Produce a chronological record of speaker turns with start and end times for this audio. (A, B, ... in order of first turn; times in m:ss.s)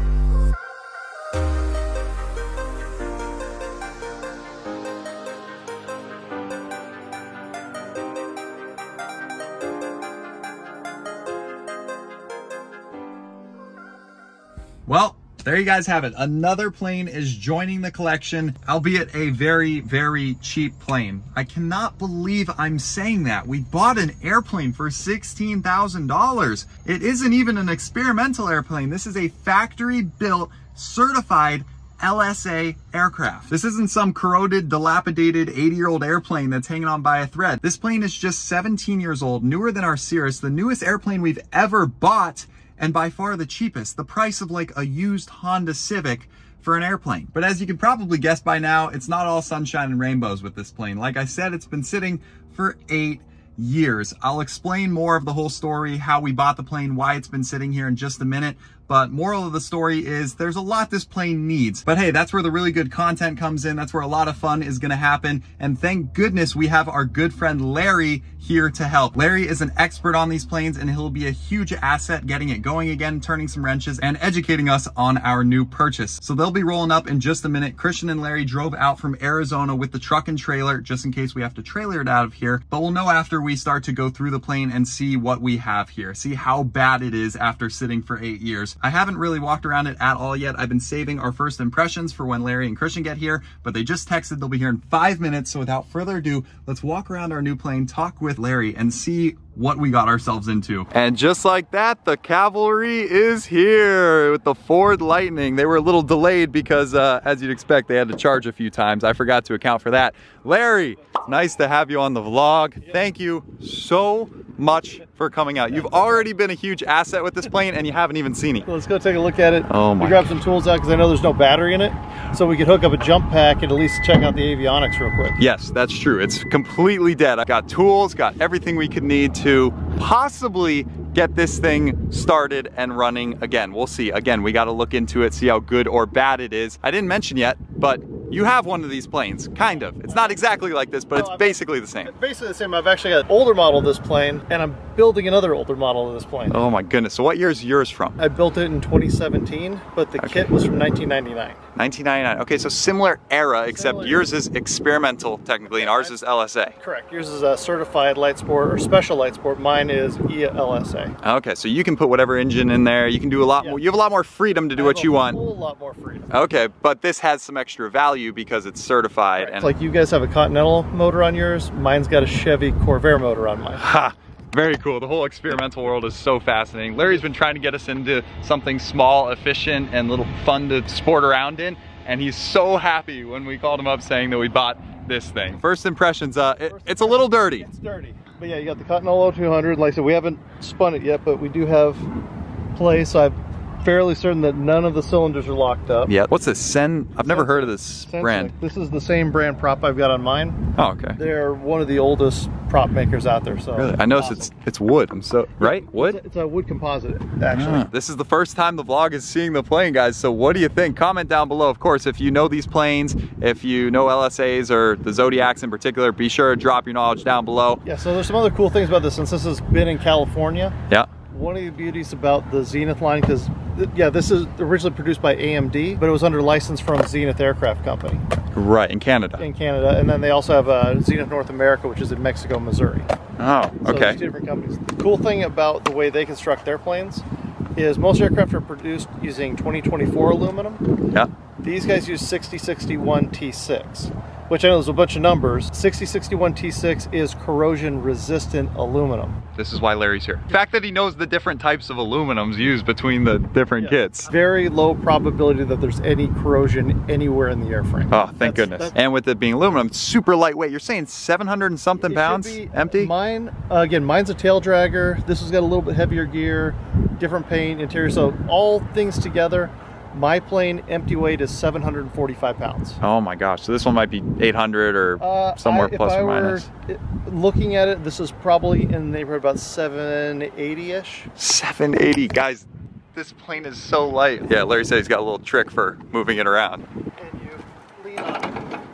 0:14.9-1:58.7 A
1:52.8-1:53.1 B
1:55.7-1:56.2 B
1:58.6-2:05.4 B
1:59.7-2:00.3 A
2:05.4-2:22.1 A
2:20.1-2:20.4 B
2:21.1-2:26.6 B
2:26.5-2:28.2 A
2:28.2-2:31.6 B
2:30.2-2:30.5 A
2:31.8-2:36.8 A
2:33.6-2:34.3 B
2:35.7-2:36.2 B
2:36.8-2:41.1 B
2:41.2-2:45.4 A
2:44.7-2:46.3 B
2:46.3-2:49.7 A
2:49.4-2:53.8 B
2:53.8-3:07.7 A
3:06.7-3:12.1 B
3:12.7-3:16.1 B
3:16.1-3:18.5 A
3:17.2-3:20.6 B
3:20.8-3:21.2 A
3:21.2-3:24.5 B
3:23.7-3:26.2 A
3:25.6-3:27.9 B
3:27.5-3:37.8 A
3:37.8-3:40.8 B
3:41.3-3:48.2 B
3:48.5-3:49.5 A
3:49.4-3:53.1 B
3:53.4-3:54.2 A
3:53.8-4:00.8 B
4:01.6-4:09.4 B
4:09.5-4:14.3 A
4:13.8-4:19.0 B
4:18.1-4:23.1 A
4:22.0-4:33.0 B
4:33.0-4:36.7 A
4:35.2-4:41.3 B
4:41.4-4:46.8 A
4:47.2-4:48.7 B